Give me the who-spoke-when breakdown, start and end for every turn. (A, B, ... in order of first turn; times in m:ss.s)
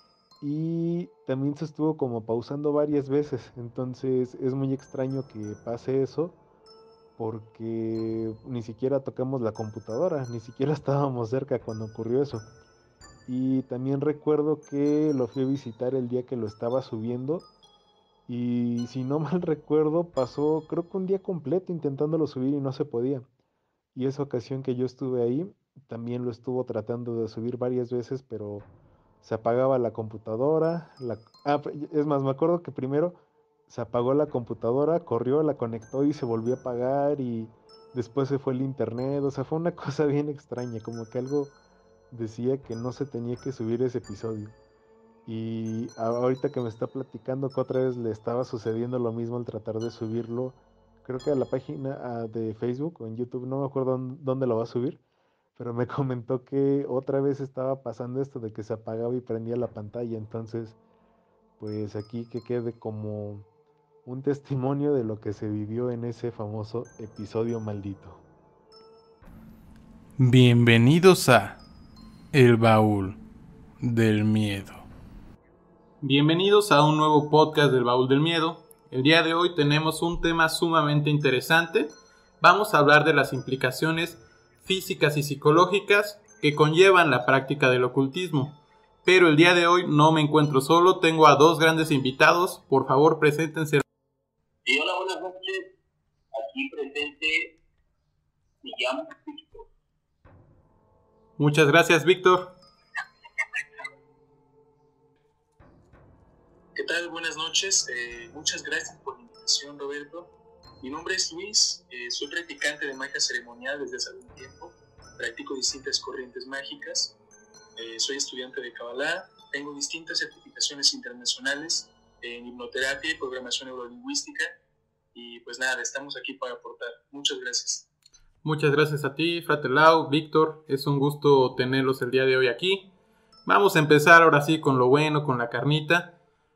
0:00.4-0:06.4 A
0:07.2-0:12.5 A
0:13.3-0:17.4 A
0:18.3-0:23.3 A
0:23.9-0:28.7 A
0:29.2-0:41.5 A
0:42.1-0:44.6 A
0:45.2-0:55.0 A
0:55.6-1:00.8 A
1:01.6-1:03.5 A
1:04.0-1:08.2 A
1:10.2-1:11.6 B
1:12.3-1:13.1 B
1:13.8-1:14.8 B
1:16.0-1:28.5 C
1:29.0-1:33.8 C
1:34.6-1:35.7 D
1:36.3-1:37.6 D
1:38.6-1:39.7 D
1:41.4-1:42.5 C
1:46.7-1:57.2 E
1:57.8-2:04.5 E
2:05.1-2:07.8 E
2:08.4-2:12.9 C
2:13.5-2:16.1 C